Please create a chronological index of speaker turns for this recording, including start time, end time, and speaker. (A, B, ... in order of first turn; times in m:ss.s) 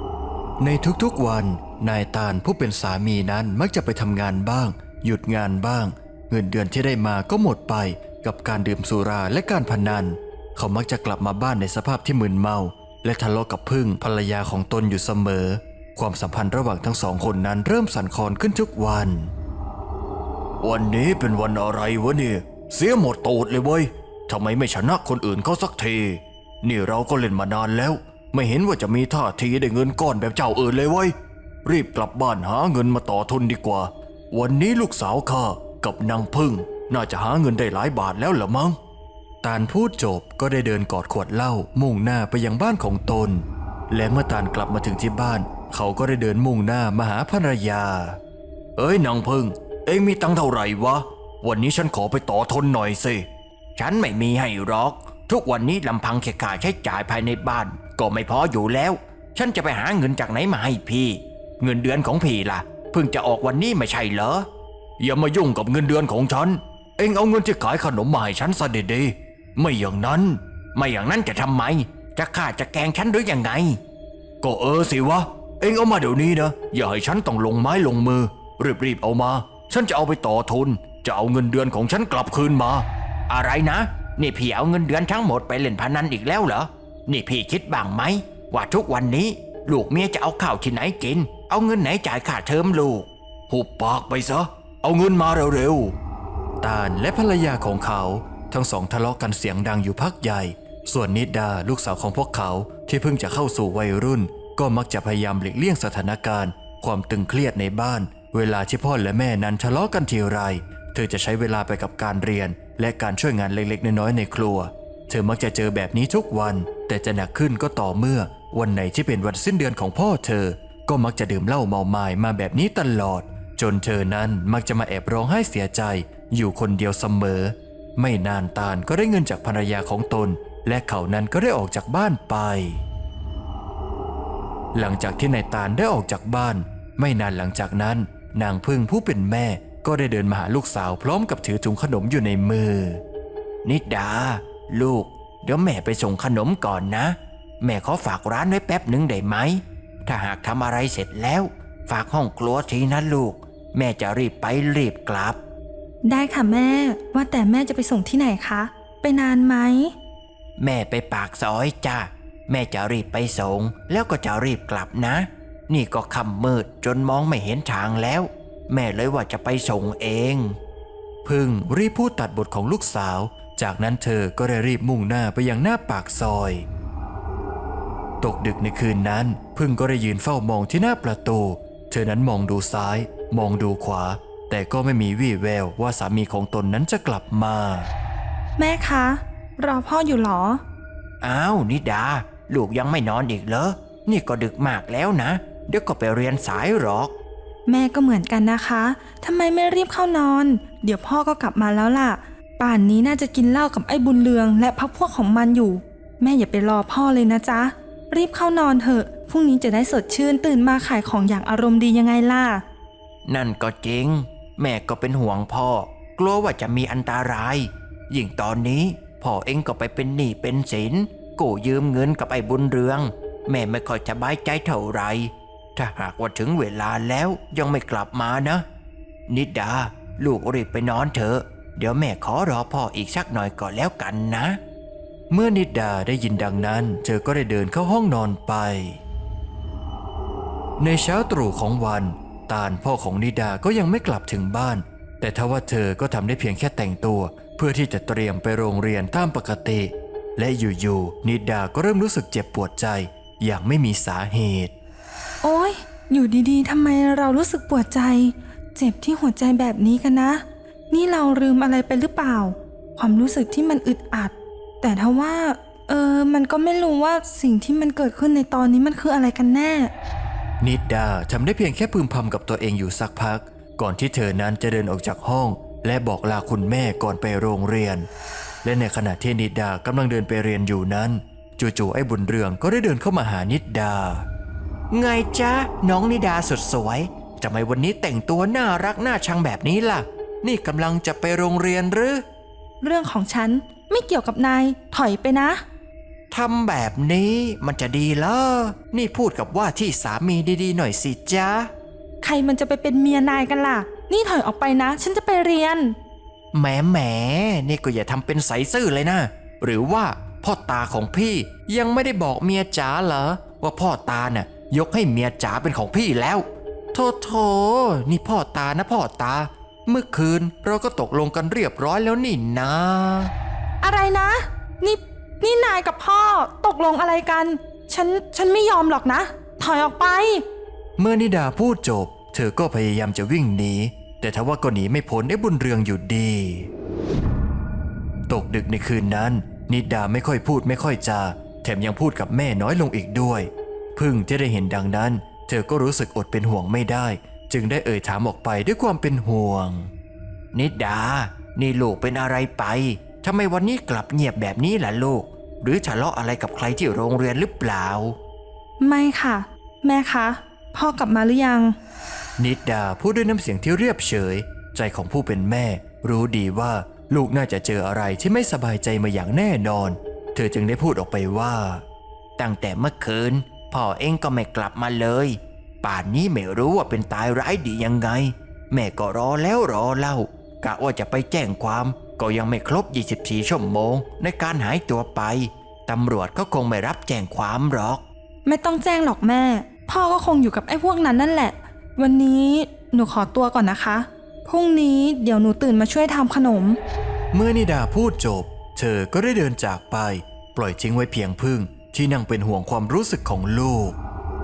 0:00.6-0:19.3 A
0:20.6-0:25.8 A
0:25.3-0:26.1 B
0:26.6-0:31.1 A
0:27.1-0:27.4 B
0:29.6-0:30.0 B
0:31.6-0:38.7 A
0:39.4-0:48.2 A
0:48.8-0:49.5 A
0:49.9-0:51.0 B
0:50.3-0:52.1 A
0:51.5-0:53.2 B
0:53.8-1:04.5 B
1:05.0-1:10.4 A
1:10.7-1:13.8 B
1:14.4-1:19.5 A
1:15.8-1:16.7 B
1:18.4-1:18.8 B
1:19.4-1:22.6 B
1:23.3-1:35.9 B
1:36.6-2:12.7 A
2:14.7-2:23.0 A
2:23.6-2:35.4 B
2:36.0-2:39.9 C
2:40.6-2:50.6 B
2:51.2-2:56.6 A
2:58.2-3:07.9 A
3:08.6-3:10.6 C
3:11.2-3:17.1 B
3:17.6-3:32.6 C
3:33.2-3:48.6 B
3:49.3-3:54.6 B
3:55.3-3:59.0 A
4:00.8-4:14.7 A
4:15.4-4:29.9 C
4:30.6-4:38.0 A
4:35.0-4:35.3 B
4:38.6-4:43.2 A
4:42.9-4:44.2 B
4:44.9-4:52.2 B
4:52.8-4:55.6 C
4:56.3-5:01.7 B
5:02.2-5:06.0 C
5:06.5-5:23.3 B
5:23.8-5:30.4 C
5:31.0-5:36.7 A
5:38.3-5:49.9 A
5:50.5-5:58.2 B
5:58.8-6:01.8 C
6:02.4-6:11.8 A
6:12.4-6:28.0 B
6:28.4-6:36.8 C
6:37.3-6:44.0 A